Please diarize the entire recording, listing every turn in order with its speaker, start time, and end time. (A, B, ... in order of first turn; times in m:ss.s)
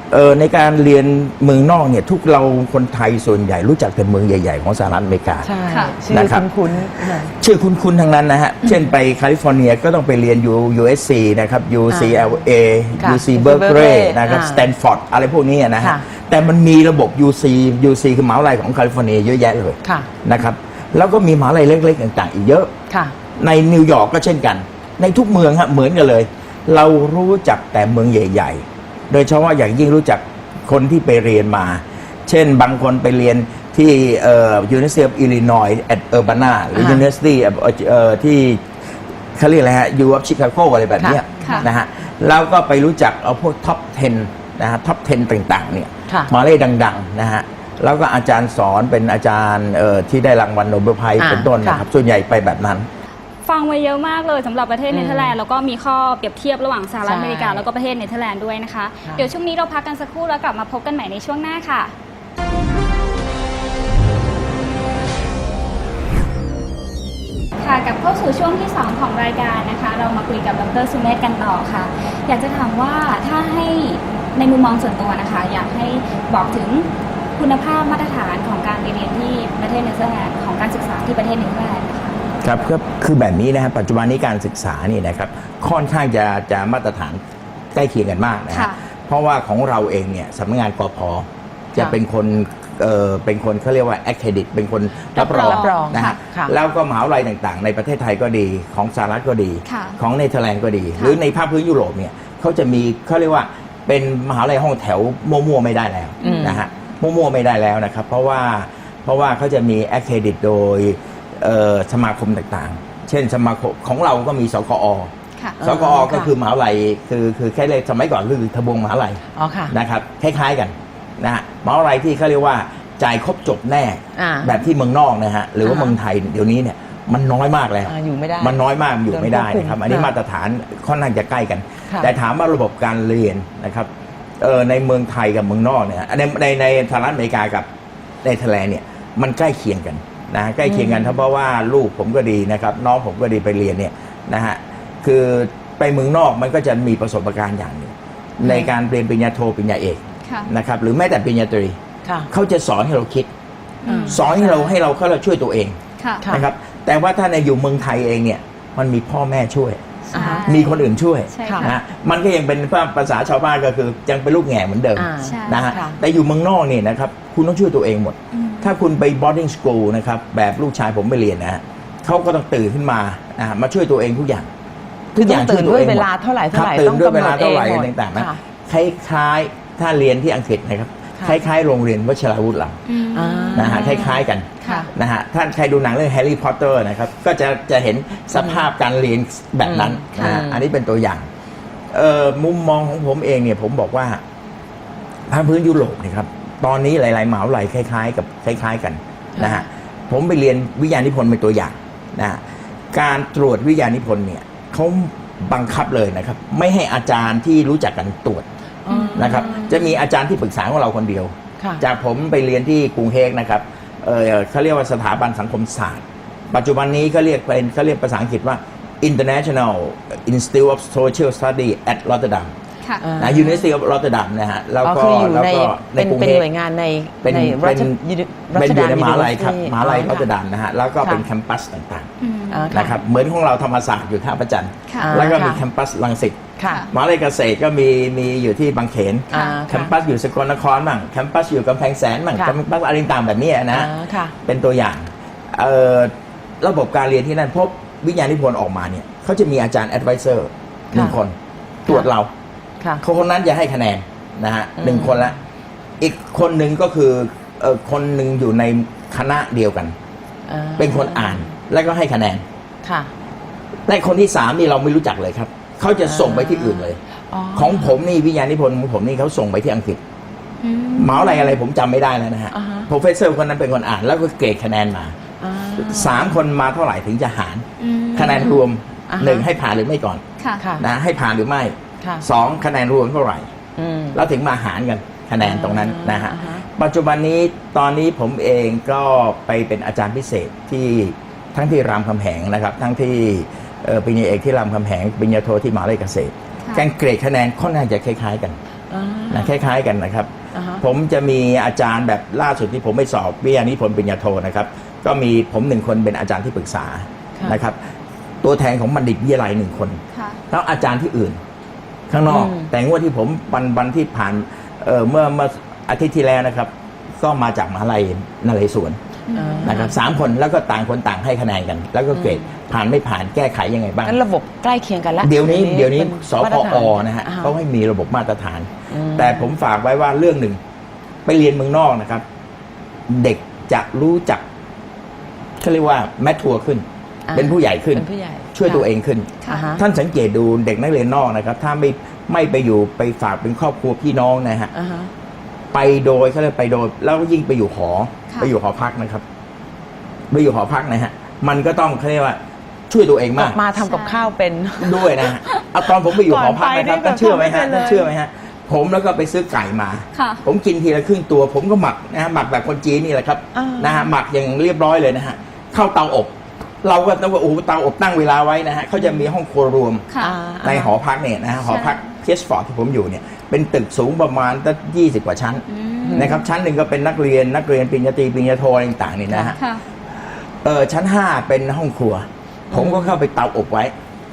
0:00.1-0:05.5 A
0:05.4-0:07.3 B
0:05.7-0:06.0 C
0:06.1-0:22.7 A
0:11.9-0:12.3 B
0:13.0-0:14.7 B
0:19.8-0:20.1 B
0:22.9-0:23.2 B
0:23.4-0:38.7 A
0:36.8-0:37.1 B
0:39.4-0:52.9 A
0:41.0-0:41.7 B
0:51.2-0:51.8 B
0:53.4-1:01.9 C
0:54.9-0:55.4 B
0:57.0-0:57.6 B
1:07.6-1:22.2 C
1:22.4-1:27.2 A
1:27.7-2:13.9 A
1:28.5-1:28.8 C
1:35.1-1:36.2 C
1:35.4-1:36.5 B
1:39.7-1:40.0 C
1:46.2-1:46.6 C
1:46.2-1:46.6 B
1:55.6-1:56.3 B
1:59.4-1:59.7 B
2:04.2-2:04.6 B
2:05.6-2:05.9 B
2:07.9-2:10.1 B
2:14.4-2:17.7 A
2:18.2-2:31.8 A
2:20.6-2:21.2 B
2:28.4-2:28.7 B
2:32.3-2:33.3 A
2:33.8-2:34.2 C
2:33.9-2:34.7 B
2:34.1-2:39.8 A
2:36.2-2:36.5 B
2:40.1-2:40.8 C
2:40.1-2:40.8 B
2:40.4-2:54.5 A
2:41.3-2:41.7 C
2:41.5-2:41.8 B
2:45.0-2:46.0 B
2:45.2-2:45.8 C
2:48.3-2:48.8 C
2:55.2-3:02.8 A
2:55.2-2:58.4 B
3:02.9-3:04.9 C
3:03.1-3:04.9 B
3:03.6-3:11.3 A
3:08.3-3:08.6 B
3:09.6-3:10.7 B
3:10.2-3:10.4 C
3:11.9-3:14.2 A
3:15.3-3:28.4 A
3:19.4-3:19.6 B
3:28.9-3:29.9 B
3:28.9-3:29.2 C
3:29.1-3:42.5 A
3:43.0-3:43.6 B
3:43.2-3:46.5 A
3:44.8-3:50.3 B
3:47.2-3:48.0 A
3:48.5-3:52.1 A
3:52.2-3:52.8 C
3:52.5-3:53.0 B
3:52.7-4:03.9 A
3:55.0-3:55.6 B
3:56.6-3:56.8 B
3:56.6-3:56.9 C
3:59.3-3:59.6 C
3:59.3-3:59.9 B
4:03.7-4:04.3 B
4:04.4-4:12.3 A
4:13.0-4:15.4 A
4:14.8-4:15.4 B
4:16.0-4:20.0 A
4:20.5-4:21.5 B
4:20.8-4:22.4 A
4:22.8-4:23.1 B
4:23.9-4:27.0 A
4:26.0-4:28.0 B
4:27.6-4:30.0 A
4:30.6-4:31.6 C
4:31.0-4:35.2 A
4:32.5-4:32.9 B
4:35.4-4:36.4 B
4:35.8-4:40.2 A
4:37.8-4:38.6 C
4:39.1-4:39.5 B
4:40.6-4:40.8 B
4:40.8-4:43.5 A
4:43.8-4:44.2 B
4:44.1-4:58.6 A
4:45.4-4:46.6 B
4:58.9-4:59.5 B
4:59.3-5:07.8 A
5:00.5-5:00.8 B
5:08.4-5:10.0 A
5:10.1-5:10.4 C
5:10.5-5:11.4 A
5:12.1-5:19.0 A
5:12.3-5:12.7 B
5:19.3-5:19.8 C
5:19.3-5:20.0 B
5:19.6-5:24.2 A
5:22.1-5:22.5 B
5:24.0-5:27.5 B
5:25.2-5:30.6 A
5:28.9-5:29.5 B
5:31.2-5:32.2 A
5:33.1-5:34.4 A
5:35.6-5:44.7 A
5:37.3-5:38.9 B
5:39.5-5:39.8 B
5:44.7-5:45.1 B
5:45.7-5:49.2 A
5:50.3-5:53.6 A
5:53.4-5:55.1 B
5:53.8-5:54.3 C
5:54.8-6:10.1 A
5:55.2-5:55.6 C
5:56.1-5:58.1 B
6:00.1-6:00.4 C
6:03.5-6:04.1 B
6:10.2-6:10.9 B
6:10.6-6:19.6 A
6:11.6-6:12.0 C
6:15.7-6:16.4 C
6:16.0-6:16.4 B
6:19.3-6:19.6 B
6:19.6-6:19.8 C
6:20.6-6:23.9 A
6:22.7-6:23.2 B